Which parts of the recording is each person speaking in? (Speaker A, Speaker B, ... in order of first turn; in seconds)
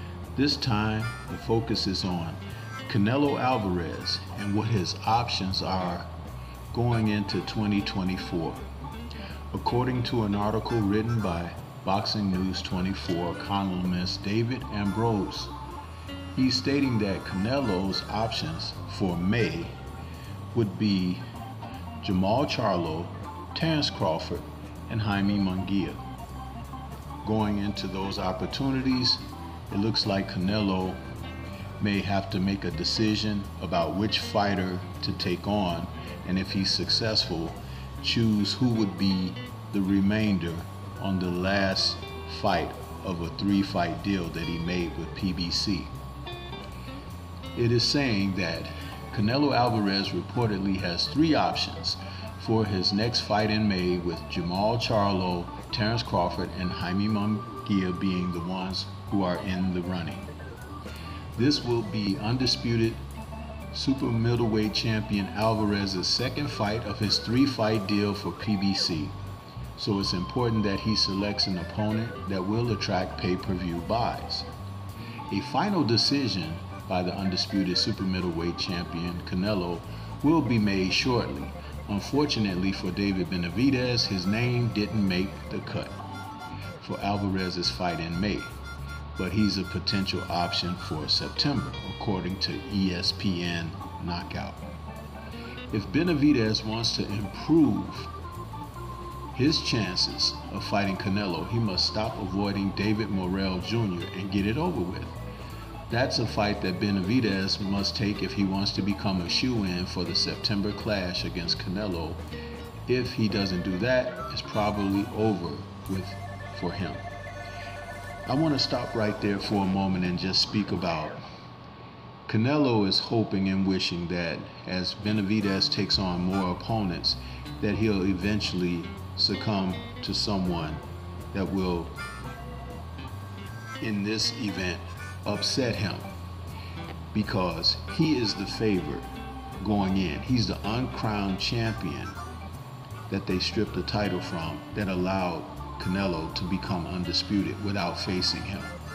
Speaker A: 0.3-6.1, 6.7-8.7, 9.5-15.5, 16.3-19.8, 20.5-21.2, 22.0-26.0, 27.2-31.0, 31.8-45.9, 47.5-60.3, 61.4-63.0, 63.7-69.2, 69.8-74.5, 75.3-86.0, 86.8-88.5, 89.2-94.7, 95.7-98.1, 99.3-105.2, 105.9-112.2, 112.9-117.0, 118.3-121.2, 122.3-130.8, 131.3-132.0, 133.8-136.1, 137.1-139.1, 139.6-142.2, 143.1-148.8